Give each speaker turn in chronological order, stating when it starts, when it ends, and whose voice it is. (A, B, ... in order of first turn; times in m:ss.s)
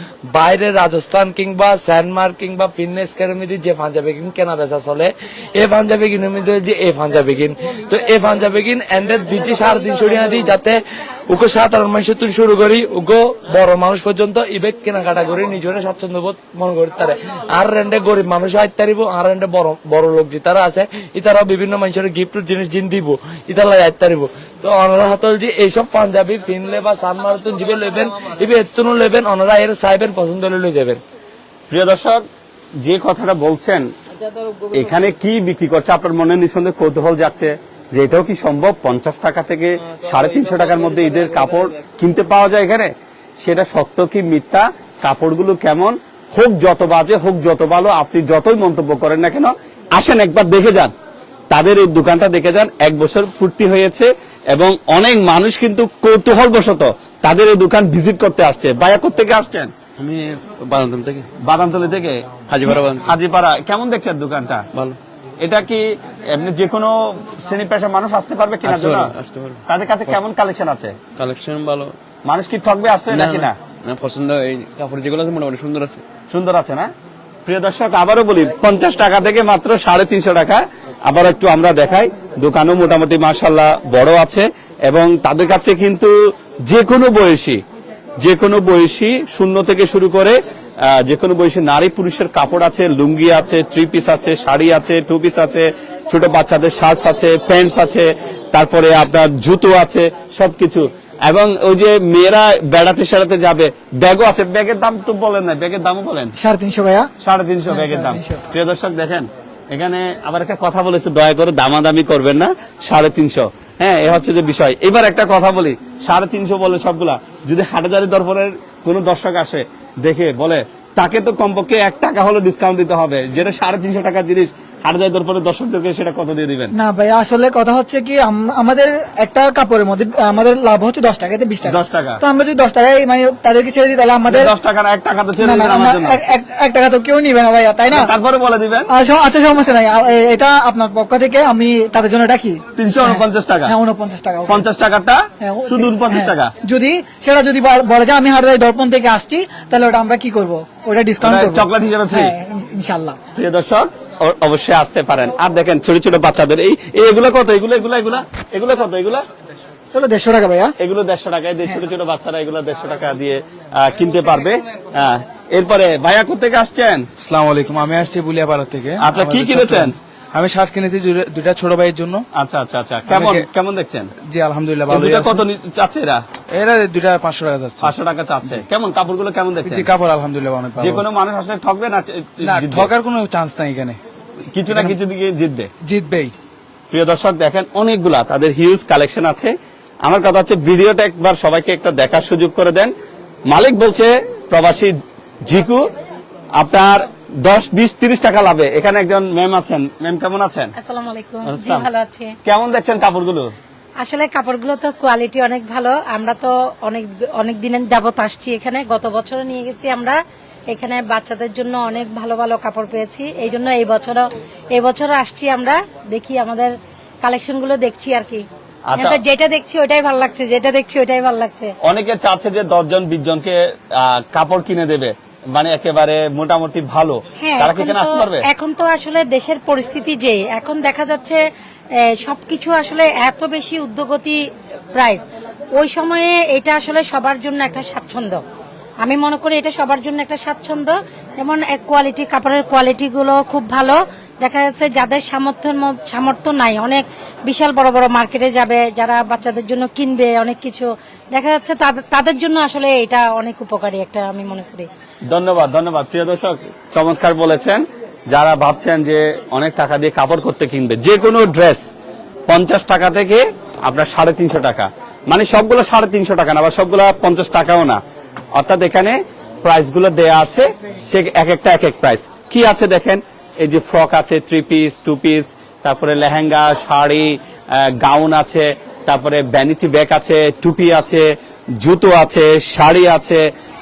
0:00.2-0:31.0 A
0:31.7-0:32.2 B
0:32.8-0:33.9 B
0:34.7-0:50.9 B
0:51.5-0:59.7 B
1:00.0-1:01.3 C
1:01.4-1:04.6 B
1:02.5-1:03.1 C
1:05.4-1:09.1 B
1:08.6-1:10.2 C
1:09.6-1:10.9 B
1:11.2-1:11.9 C
1:12.2-1:13.5 B
1:13.1-1:16.0 C
1:16.3-1:16.9 B
1:17.4-1:26.1 B
1:26.6-1:27.6 B
1:28.2-1:30.4 B
1:30.9-1:46.3 B
1:46.4-1:47.1 D
1:47.2-2:06.7 B
1:47.7-1:48.4 D
2:06.7-2:14.5 D
2:11.6-2:12.2 B
2:14.3-2:16.2 B
2:15.4-2:18.1 D
2:17.9-2:18.9 B
2:18.9-2:24.6 D
2:22.8-2:23.7 B
2:24.5-2:26.5 B
2:25.4-2:33.2 D
2:31.2-2:32.3 B
2:33.3-2:39.2 B
2:39.9-2:40.7 D
2:40.8-2:47.0 B
2:47.2-2:52.2 E
2:49.0-2:49.9 B
2:52.4-2:54.1 B
2:53.1-2:53.5 E
2:54.3-2:55.4 E
2:54.9-2:56.2 B
2:56.5-2:57.9 E
2:57.8-2:59.9 B
2:59.7-3:01.1 E
3:00.8-3:02.9 B
3:02.4-3:04.0 E
3:04.5-3:05.7 B
3:04.7-3:05.0 E
3:05.8-3:06.3 E
3:06.9-3:09.5 B
3:10.0-3:12.9 B
3:13.5-3:15.9 B
3:16.6-3:20.7 B
3:20.8-3:22.3 F
3:21.4-3:21.9 B
3:22.4-3:23.5 B
3:24.0-3:30.2 F
3:30.7-3:38.4 F
3:38.9-3:39.2 B
3:39.0-3:41.7 F
3:41.8-3:48.4 B
3:47.4-3:51.4 F
3:52.2-3:54.4 F
3:54.9-3:55.2 F
3:55.8-3:58.4 F
3:59.0-4:14.9 F
4:15.3-4:21.8 B
4:22.5-4:28.0 B
4:28.5-4:41.3 B
4:41.8-4:43.5 B